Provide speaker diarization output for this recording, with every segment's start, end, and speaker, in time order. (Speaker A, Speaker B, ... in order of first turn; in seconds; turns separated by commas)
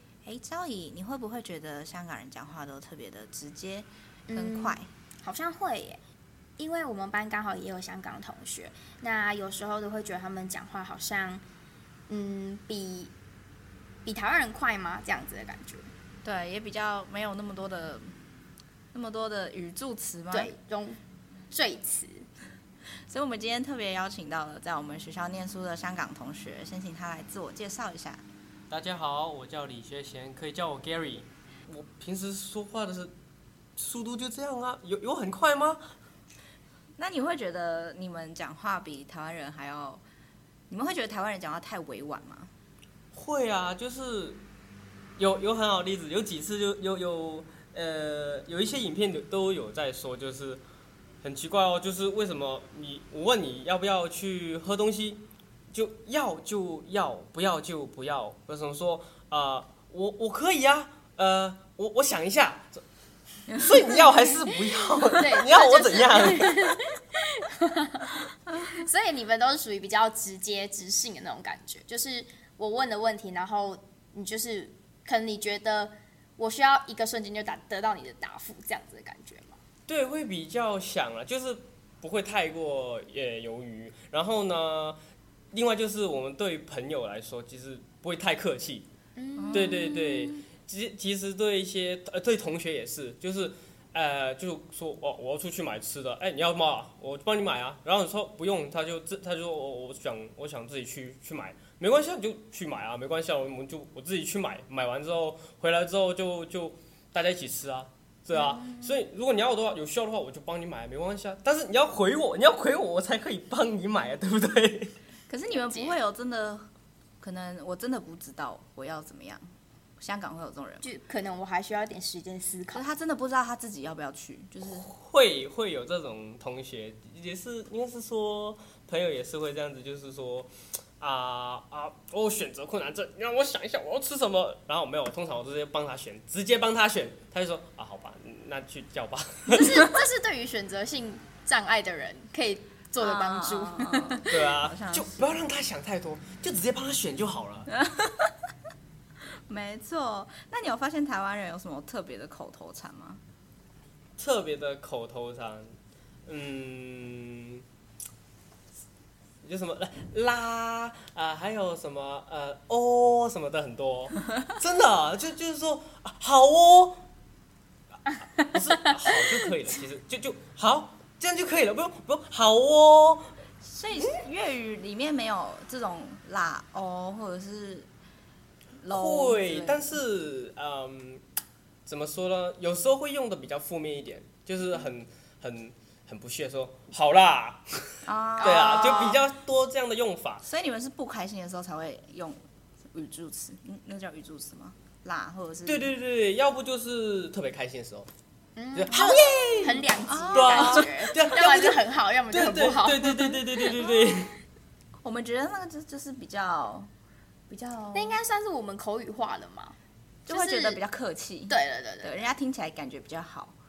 Speaker A: 0.2-4.9, Speaker B: 4.3-6.0, Speaker B: 6.6-11.4, Speaker B: 12.1-13.1, Speaker B: 14.0-15.9, Speaker A: 16.2-18.1, Speaker A: 18.9-20.5, Speaker B: 20.3-21.0, Speaker B: 21.5-22.2, Speaker A: 23.1-28.2, Speaker C: 28.7-33.1, Speaker C: 33.8-35.8, Speaker A: 37.0-40.0, Speaker A: 40.7-42.5, Speaker C: 43.1-44.4, Speaker C: 45.2-50.6, Speaker C: 51.2-62.8, Speaker A: 63.5-63.8, Speaker C: 63.5-66.8, Speaker B: 64.5-68.1, Speaker A: 68.5-68.8, Speaker B: 68.6-79.6, Speaker C: 79.9-85.0, Speaker C: 85.5-88.9, Speaker B: 89.2-90.2, Speaker A: 89.3-90.3, Speaker C: 89.5-114.9, Speaker A: 108.3-109.0, Speaker A: 115.3-116.7, Speaker B: 115.6-115.9, Speaker A: 117.2-119.4, Speaker A: 120.0-120.8, Speaker B: 120.8-122.8, Speaker A: 122.7-124.9, Speaker C: 124.7-139.9, Speaker B: 139.5-144.2, Speaker A: 143.0-145.2, Speaker C: 144.3-147.7, Speaker A: 147.7-148.3, Speaker A: 149.5-153.2, Speaker C: 154.2-157.6, Speaker C: 159.4-167.0, Speaker B: 168.4-169.2, Speaker C: 168.4-173.3, Speaker A: 173.6-177.9, Speaker A: 178.8-179.9, Speaker C: 178.9-181.2, Speaker C: 181.8-190.4, Speaker A: 188.0-189.1, Speaker B: 188.4-189.2, Speaker A: 190.4-192.4, Speaker A: 192.9-195.9, Speaker C: 195.7-198.1, Speaker B: 198.6-203.8, Speaker C: 198.7-204.3, Speaker A: 198.9-201.1, Speaker A: 205.0-206.9, Speaker A: 207.5-208.2, Speaker B: 207.9-209.8, Speaker A: 210.3-213.5, Speaker B: 210.3-210.8, Speaker B: 211.5-212.3